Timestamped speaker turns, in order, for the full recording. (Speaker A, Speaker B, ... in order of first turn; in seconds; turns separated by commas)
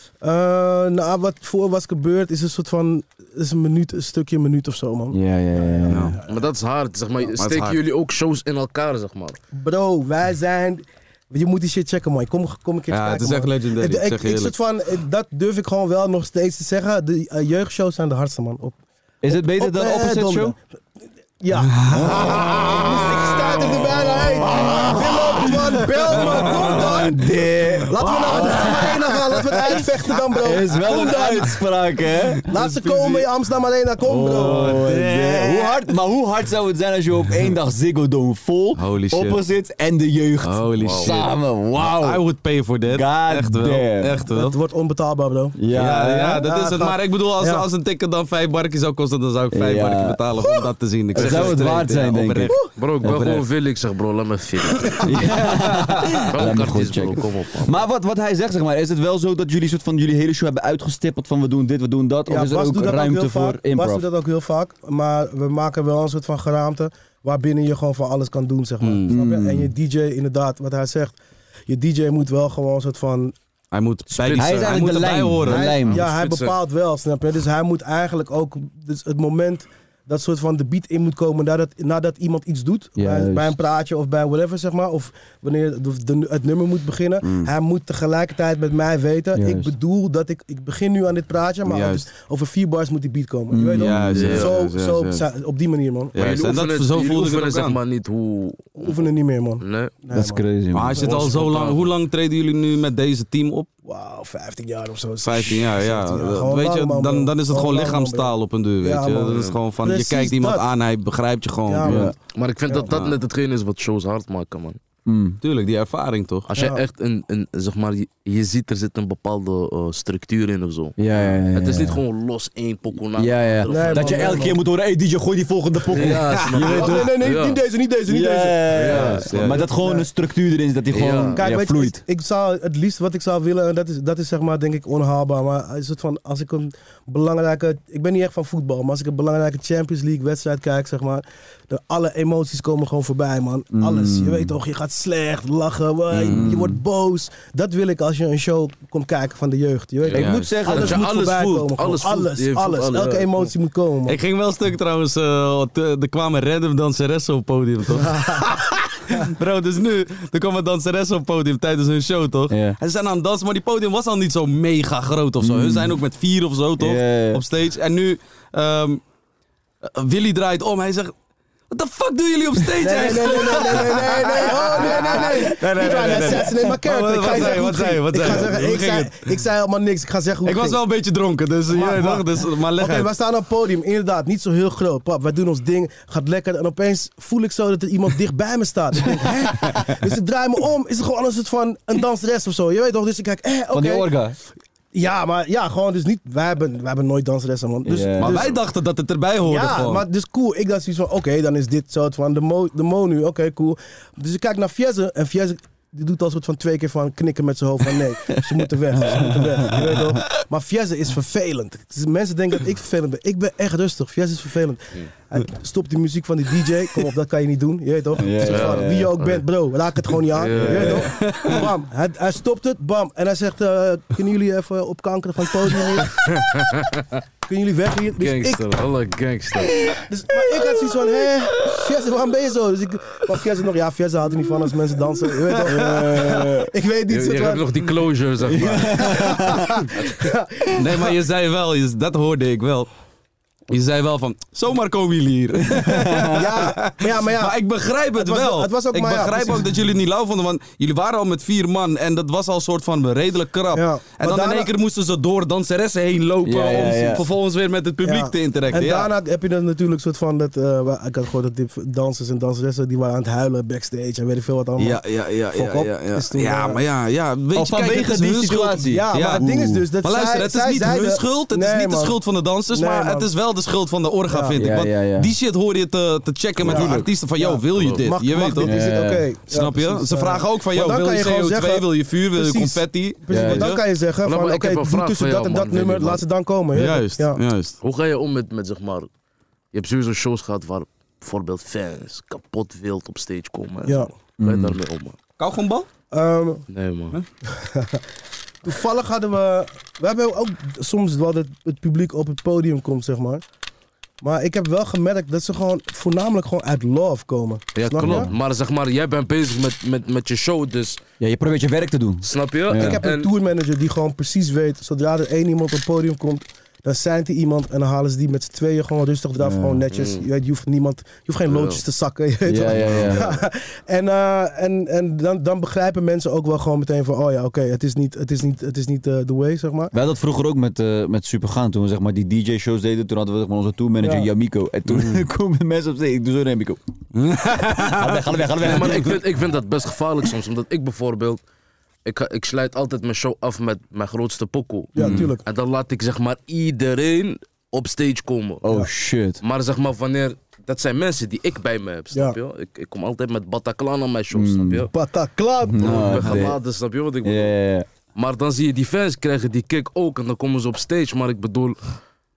Speaker A: 0.2-6.5, Speaker B: 5.1-6.2, Speaker C: 5.9-6.2, Speaker D: 6.3-9.4, Speaker C: 7.4-7.8, Speaker A: 9.6-20.6, Speaker C: 12.9-14.6, Speaker B: 19.2-20.6, Speaker A: 21.4-27.3, Speaker B: 21.9-23.6, Speaker B: 24.4-28.9, Speaker C: 26.2-26.8, Speaker A: 27.9-31.6, Speaker C: 28.0-28.9, Speaker B: 30.4-32.5, Speaker A: 32.5-35.0, Speaker C: 32.5-33.3, Speaker B: 34.0-42.2, Speaker C: 34.2-35.4, Speaker C: 38.8-39.4, Speaker C: 40.4-41.3, Speaker D: 40.7-41.2, Speaker C: 41.8-44.6, Speaker B: 42.9-44.2, Speaker A: 44.3-45.6, Speaker B: 45.6-46.5, Speaker C: 45.7-53.5, Speaker A: 46.4-47.7, Speaker B: 49.5-50.2, Speaker D: 51.1-51.9, Speaker B: 51.1-53.3, Speaker D: 52.8-55.0, Speaker C: 54.9-56.6, Speaker B: 55.0-64.1, Speaker D: 56.3-57.8, Speaker A: 62.3-71.2, Speaker C: 68.8-69.1, Speaker B: 69.1-69.7, Speaker A: 71.7-73.3, Speaker C: 73.7-75.7, Speaker D: 74.1-74.8, Speaker B: 74.3-76.0, Speaker A: 75.5-96.2, Speaker D: 75.8-76.6, Speaker B: 83.0-83.6, Speaker B: 87.2-87.5, Speaker B: 89.3-89.7, Speaker C: 91.7-92.0, Speaker B: 93.5-94.4, Speaker C: 93.8-95.2, Speaker D: 94.1-94.5, Speaker C: 96.2-97.8, Speaker D: 96.2-99.1, Speaker A: 98.8-100.4, Speaker D: 99.6-100.0, Speaker B: 100.1-101.1, Speaker C: 100.7-103.7, Speaker A: 101.0-101.4, Speaker D: 101.0-101.9, Speaker A: 103.8-110.6, Speaker C: 105.2-112.1, Speaker D: 109.3-109.6, Speaker A: 111.7-112.2, Speaker B: 111.8-112.2, Speaker D: 112.3-114.8, Speaker A: 112.7-112.9, Speaker C: 112.9-113.2, Speaker B: 115.1-115.4, Speaker C: 115.4-116.5, Speaker D: 116.5-124.4, Speaker A: 116.5-116.8, Speaker B: 121.0-122.0, Speaker B: 123.2-127.2, Speaker A: 123.7-124.6, Speaker D: 125.9-127.6, Speaker C: 126.1-126.6, Speaker A: 126.6-129.3, Speaker B: 128.1-132.0, Speaker D: 128.7-129.3, Speaker C: 129.2-129.7, Speaker A: 129.8-130.1, Speaker D: 130.9-131.4, Speaker A: 131.4-154.2, Speaker B: 143.7-144.5, Speaker C: 146.1-146.5, Speaker B: 146.3-146.8, Speaker B: 150.1-151.0, Speaker D: 150.1-153.5, Speaker C: 150.1-150.4, Speaker C: 154.1-169.0, Speaker A: 157.9-158.5, Speaker B: 162.5-162.8, Speaker B: 165.4-166.0, Speaker B: 166.8-167.4, Speaker C: 169.8-171.1, Speaker C: 171.7-179.3, Speaker A: 172.8-180.8, Speaker B: 175.8-176.4, Speaker C: 180.4-183.1, Speaker A: 181.7-182.2, Speaker A: 182.8-194.1, Speaker B: 193.7-194.4, Speaker A: 194.9-198.6, Speaker B: 197.8-198.4, Speaker C: 198.2-200.1, Speaker A: 199.4-226.3, Speaker B: 209.0-210.2, Speaker B: 218.2-219.2, Speaker D: 218.5-218.9, Speaker D: 220.3-221.1, Speaker B: 220.5-221.2, Speaker C: 221.2-221.6, Speaker D: 226.6-227.0, Speaker A: 227.5-228.8, Speaker D: 228.2-229.8, Speaker B: 229.9-231.1, Speaker A: 230.1-237.8, Speaker C: 235.7-236.1, Speaker B: 235.7-236.7, Speaker D: 237.1-239.0, Speaker B: 238.4-239.8, Speaker A: 238.6-241.1, Speaker C: 240.8-242.9, Speaker C: 243.7-259.1, Speaker B: 245.8-246.5, Speaker A: 246.3-247.6, Speaker A: 248.1-249.6, Speaker A: 253.7-254.7, Speaker B: 256.4-257.2, Speaker A: 258.0-265.0, Speaker C: 264.8-269.5, Speaker A: 265.5-266.8, Speaker B: 267.5-269.8, Speaker A: 268.9-272.2, Speaker C: 270.0-278.8, Speaker A: 272.7-273.3, Speaker A: 274.3-274.6, Speaker B: 274.6-275.3, Speaker B: 276.6-277.1, Speaker A: 276.7-287.4, Speaker D: 277.8-278.1, Speaker B: 278.6-279.3, Speaker C: 279.5-283.8, Speaker B: 283.3-283.7, Speaker D: 284.2-286.2, Speaker C: 286.7-287.8, Speaker D: 287.8-289.1, Speaker D: 289.7-295.2, Speaker B: 294.4-294.8, Speaker C: 295.4-295.9, Speaker A: 296.1-296.7, Speaker D: 296.7-297.2, Speaker A: 297.5-298.0, Speaker A: 298.6-303.4, Speaker A: 304.2-308.3, Speaker D: 307.8-311.0, Speaker B: 308.0-308.3, Speaker B: 311.2-313.0, Speaker D: 312.2-313.3, Speaker A: 312.8-329.9, Speaker B: 319.4-319.8, Speaker D: 319.9-320.3, Speaker D: 321.5-321.8, Speaker B: 322.5-323.4, Speaker D: 322.7-323.2, Speaker B: 329.9-336.8, Speaker A: 334.0-334.3, Speaker C: 334.9-335.2, Speaker C: 337.1-339.0, Speaker B: 337.8-339.1, Speaker D: 338.6-341.4, Speaker D: 342.1-348.6, Speaker A: 344.9-345.4, Speaker B: 345.0-345.3, Speaker B: 348.6-349.4, Speaker D: 349.4-354.9, Speaker A: 352.1-352.4, Speaker B: 354.3-354.9, Speaker A: 354.9-356.5, Speaker B: 355.6-356.6, Speaker D: 355.8-357.5, Speaker B: 357.2-357.9, Speaker D: 358.1-361.8